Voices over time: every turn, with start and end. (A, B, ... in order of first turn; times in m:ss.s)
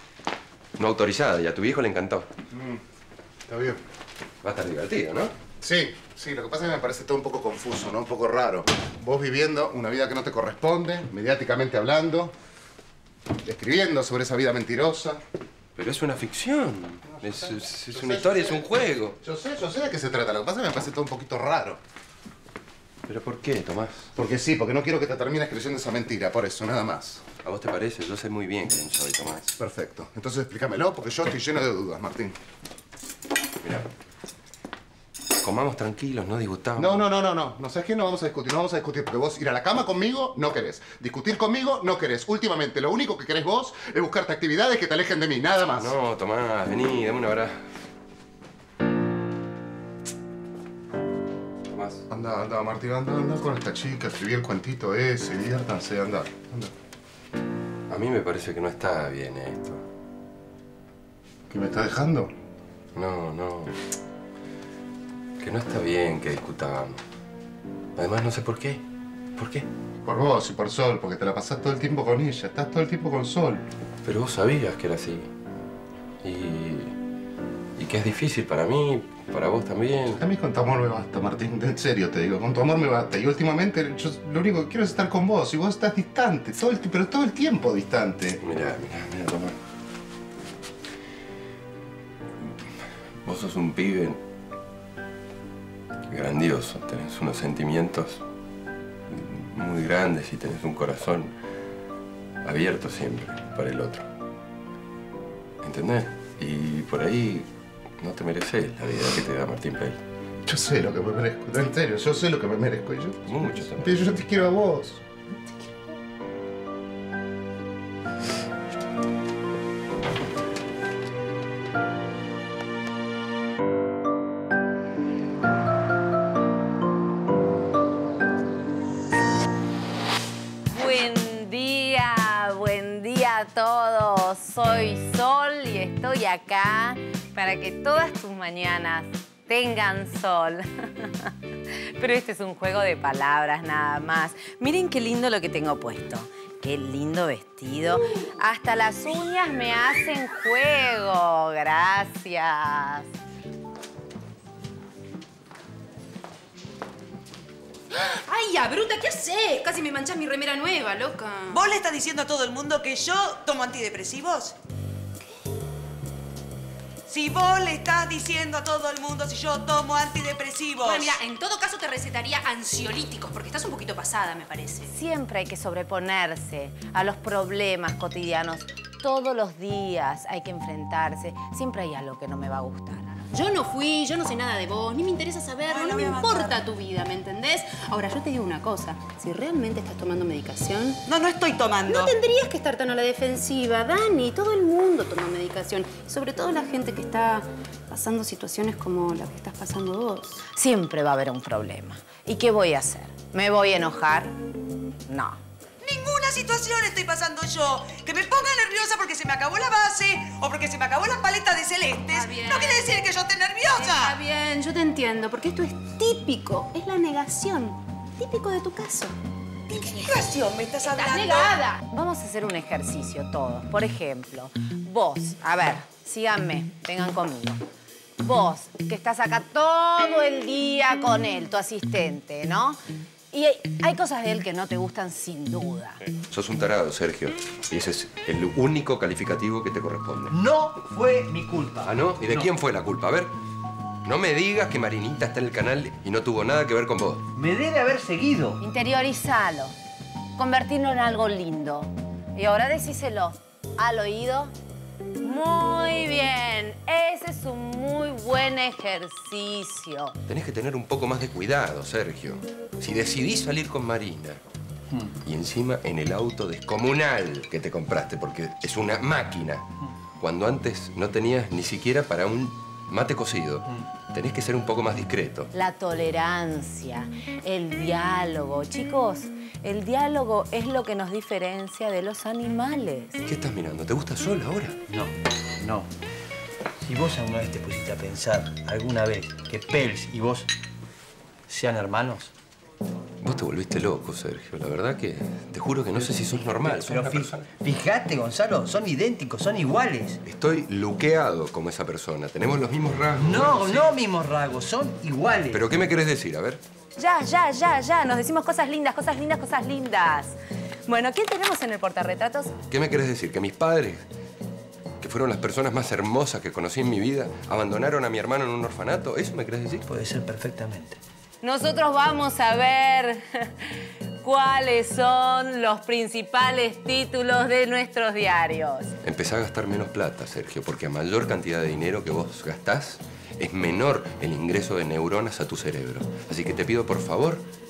0:00.8-0:02.3 A
0:02.5-0:02.8 B
0:03.5-0:03.8 B
0:04.4-0:05.3 A
0:05.6-0:12.3 B
0:13.4-0:15.2 B
0:15.8-0:19.2 A
0:17.1-0:18.6 B
0:19.2-0:21.8 B
0:23.1-0:24.1 A
0:24.2-0:27.2 B
0:27.4-0:29.6 A
0:29.6-0:32.4 B
0:33.6-0:33.9 A
0:35.4-0:37.0 A
0:36.8-0:46.0 B
0:45.8-0:47.7 A
0:51.7-0:52.0 A
0:52.1-0:56.7 B
0:57.9-0:59.8 A
1:01.5-1:02.3 B
1:02.9-1:03.8 A
1:05.4-1:07.0 A
1:08.0-1:08.8 A
1:09.4-1:09.7 A
1:10.0-1:13.6 B
1:14.0-1:15.3 A
1:16.2-1:16.9 A
1:17.8-1:20.2 A
1:20.1-1:28.4 B
1:28.4-1:29.6 A
1:33.2-1:34.2 A
1:36.1-1:38.2 A
1:39.1-1:41.3 A
1:42.4-1:44.0 A
1:45.6-1:47.5 A
1:48.0-1:50.0 A
1:50.4-1:55.0 B
1:53.3-1:54.1 A
2:10.7-2:21.3 C
2:22.0-2:33.1 C
2:37.9-2:41.6 D
2:41.5-2:44.6 E
2:47.1-2:51.2 E
2:50.8-2:54.9 D
2:54.9-3:03.1 C
3:03.3-3:11.0 D
3:05.6-3:06.6 E
3:11.1-3:12.2 E
3:11.9-3:20.4 D
3:20.5-3:24.4 C
3:25.1-3:25.4 C
3:25.8-3:34.2 E
3:32.1-3:33.0 D
3:33.7-3:39.2 D
3:39.7-3:41.6 E
3:40.8-3:41.8 D
3:41.8-3:47.6 C
3:48.2-3:52.8 C
3:53.3-3:56.0 C
3:56.3-4:00.4 A
4:00.3-4:02.5 F
4:01.8-4:03.3 A
4:04.0-4:07.3 A
4:07.3-4:08.6 F
4:08.6-4:09.7 C
4:10.4-4:14.5 C
4:15.2-4:20.2 C
4:20.3-4:24.4 A
4:25.2-4:29.7 A
4:30.2-4:35.5 A
4:35.5-4:43.2 C
4:43.3-4:44.8 A
4:44.9-4:45.9 F
4:46.8-4:50.5 F
4:51.5-4:52.3 F
4:53.2-4:57.4 A
4:56.0-5:00.2 F
5:00.2-5:03.9 A
5:03.2-5:05.7 F
5:05.5-5:06.6 A
5:07.0-5:10.3 C
5:10.9-5:12.1 C
5:11.6-5:12.5 D
5:12.7-5:14.0 A
5:15.0-5:19.9 A
5:19.9-5:21.0 F
5:21.4-5:28.9 C
5:29.0-5:37.4 A